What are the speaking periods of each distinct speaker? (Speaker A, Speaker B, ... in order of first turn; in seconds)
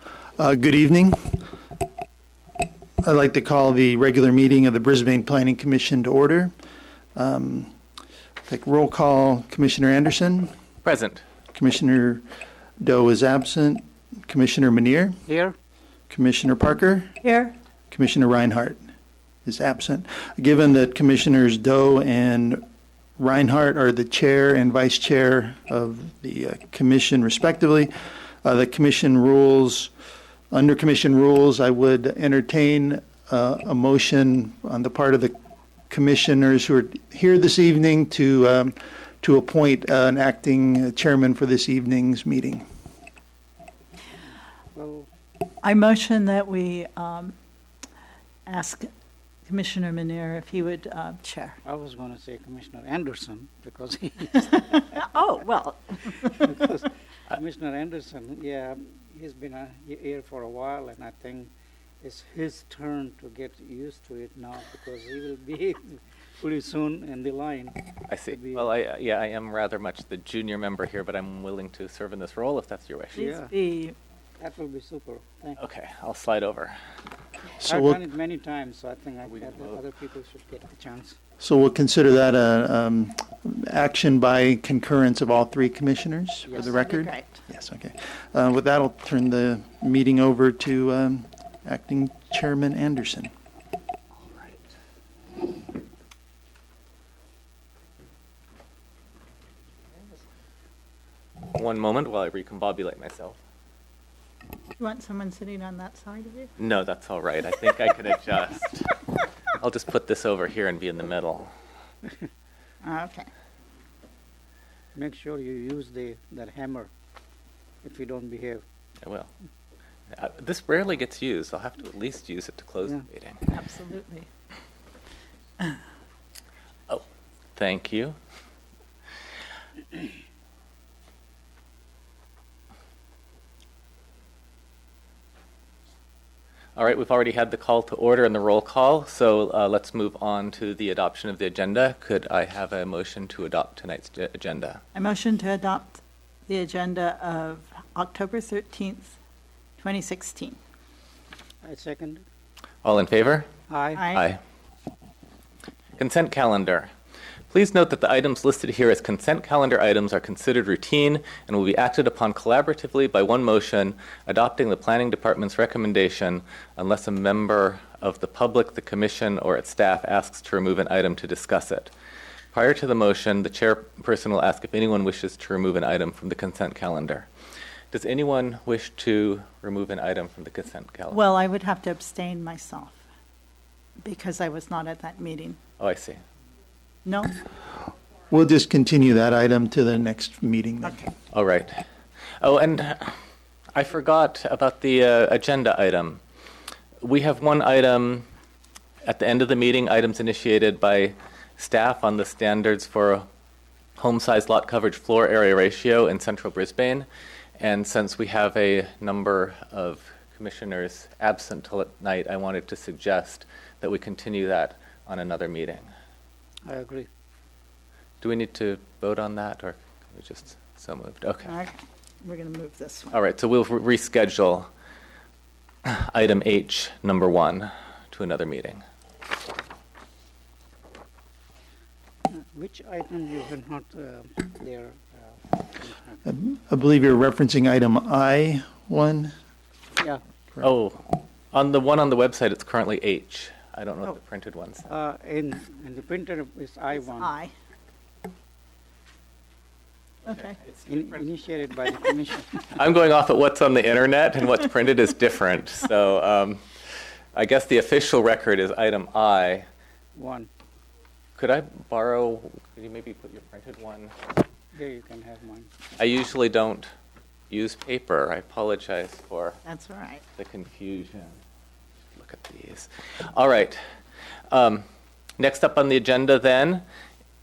Speaker A: 0.4-1.4, 3.0-6.5, 7.2-7.7, 8.5-10.5, 11.5-12.2, 12.8-15.2, 16.1-17.1, 17.9-18.8, 19.4-22.6, 23.2-27.9, 28.4-29.9, 30.5-35.3, 35.9-42.6, 77.6-78.0, 81.4-93.3, 188.3-191.0, 236.2-239.3
Speaker B: 10.8-11.2, 68.1-73.3, 75.6-76.8, 79.3-79.8, 101.5-103.4, 106.6-109.0, 109.5-111.5, 119.0-119.3, 120.1-123.4, 127.6-128.2, 136.8-144.8, 152.8-153.5, 154.1-154.4, 156.0-156.9, 157.5-171.9, 172.5-177.3, 177.9-181.2, 185.8-186.2, 191.3-191.8, 192.4-193.2, 193.7-196.2, 197.0-198.3, 199.1-203.3, 204.0-207.1, 207.6-215.9, 218.2-221.5, 223.1-224.7, 225.8-228.8, 240.6-244.9, 252.7-256.6, 257.3-259.7, 261.4-264.1, 266.0-266.9, 267.5-269.6, 270.4-271.4, 272.2-273.8, 274.5-274.9, 275.4-276.8
Speaker C: 15.3-15.6, 44.7-45.1, 51.6-54.7, 56.2-61.5, 62.0-68.7, 73.2-73.5, 74.4-75.6, 77.6-81.2, 114.9-116.9, 117.8-118.6, 151.6-152.2, 153.7-154.1, 216.7-217.1, 232.3-236.2, 244.9-247.3, 250.8-252.7, 260.1-260.5, 264.7-265.7
Speaker D: 17.2-17.5, 45.6-47.4, 48.5-48.9, 49.5-51.6, 54.5-56.2, 73.2-74.0, 86.5-87.4, 104.8-106.5, 112.8-113.3, 123.5-124.3, 144.9-149.2, 149.8-150.6, 153.9-154.3, 181.1-183.0, 184.0-185.6, 187.1-187.4, 190.8-191.1, 221.5-223.2, 246.9-247.5, 250.3-250.6, 269.6-270.2